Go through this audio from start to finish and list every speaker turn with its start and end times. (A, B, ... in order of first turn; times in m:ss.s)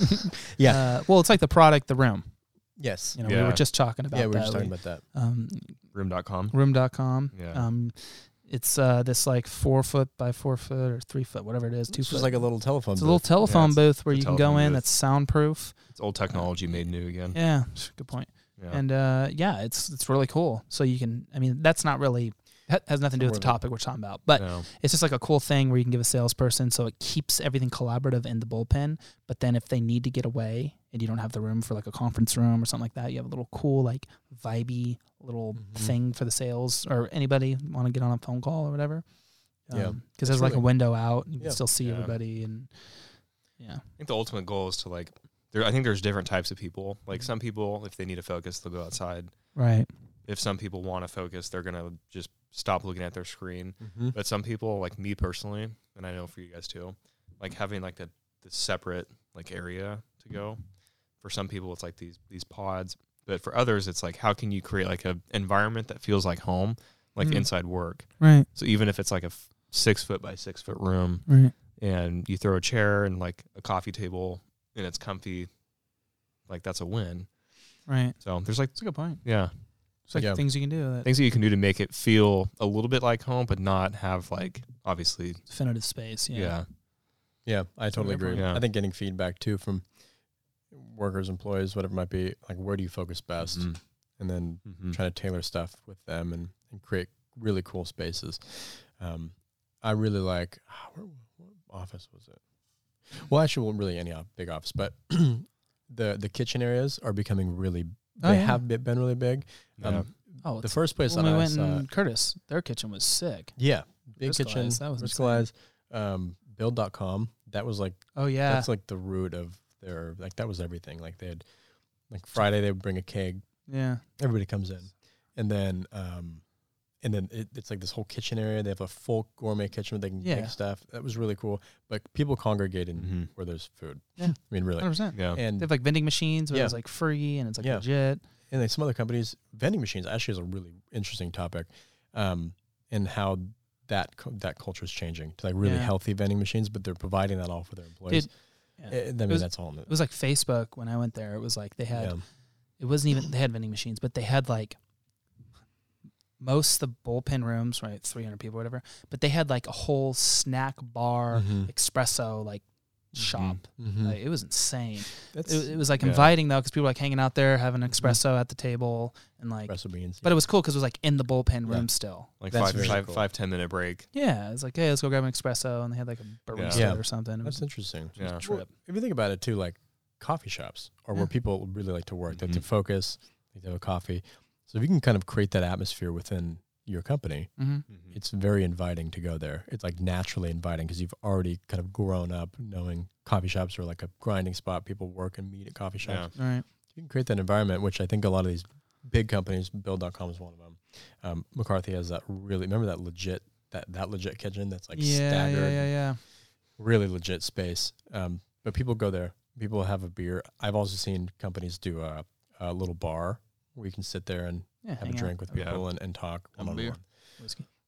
0:00.5-0:00.9 A
0:00.6-0:05.9 B
0:02.8-0:03.3 A
0:03.2-0:03.6 C
0:04.1-0:05.0 A
0:05.9-0:06.7 C
0:06.5-0:39.1 B
0:07.3-0:07.7 C
0:11.9-0:13.3 A
0:13.4-0:14.8 C
0:15.9-0:17.4 C
0:23.2-0:23.6 A
0:24.4-0:24.7 C
0:35.6-0:35.9 A
0:39.6-0:43.8 B
0:39.7-0:41.6 A
0:41.8-0:42.2 C
0:44.0-0:49.6 C
0:49.5-0:49.9 B
0:50.2-1:00.6 C
0:53.8-0:54.1 A
1:01.2-1:15.5 C
1:07.2-1:07.5 B
1:08.2-1:08.5 B
1:11.3-1:11.5 B
1:16.5-1:17.4 C
1:17.9-1:18.2 B
1:18.2-1:19.5 C
1:18.7-1:19.2 B
1:20.1-1:21.1 B
1:20.1-1:20.4 A
1:21.0-1:25.4 C
1:25.5-1:26.5 B
1:26.3-1:26.6 C
1:27.4-1:29.9 A
1:27.9-1:28.6 B
1:28.3-1:28.6 C
1:30.7-1:42.4 A
1:33.5-1:33.8 C
1:34.6-1:35.0 C
1:43.1-1:51.8 A
1:48.2-1:48.6 B
1:49.8-1:50.1 C
1:50.4-1:53.6 B
1:53.6-2:01.4 A
1:54.2-1:55.5 B
1:58.1-1:58.7 B
2:02.1-2:03.6 A
2:03.7-2:04.0 B
2:04.2-2:06.4 A
2:07.0-2:15.8 A
2:10.2-2:10.5 B
2:13.0-2:13.3 C
2:14.2-2:18.2 B
2:15.1-2:15.4 C
2:16.5-2:16.8 A
2:17.6-2:17.8 A
2:18.5-2:28.3 A
2:25.6-2:25.9 B
2:28.1-2:32.2 B
2:28.9-2:29.9 A
2:31.9-2:32.2 A
2:32.8-2:34.8 B
2:36.4-2:53.0 B
2:41.3-2:41.7 A
2:43.2-2:43.6 C
2:43.8-2:44.2 A
2:45.3-2:45.8 A
2:46.0-2:46.3 C
2:49.7-2:50.3 A
2:52.4-2:54.1 C
2:52.4-2:53.2 A
2:54.1-2:58.7 B
2:56.5-2:56.8 C
2:56.7-3:16.3 A
2:58.1-2:58.4 C
3:02.3-3:02.6 C
3:07.6-3:07.8 B
3:07.9-3:08.2 C
3:16.0-3:16.3 C
3:16.3-3:16.6 B
3:16.9-3:26.1 A
3:24.9-3:26.2 B
3:26.8-3:37.0 A
3:34.8-3:35.8 B
3:35.5-3:35.8 C
3:36.6-3:37.6 B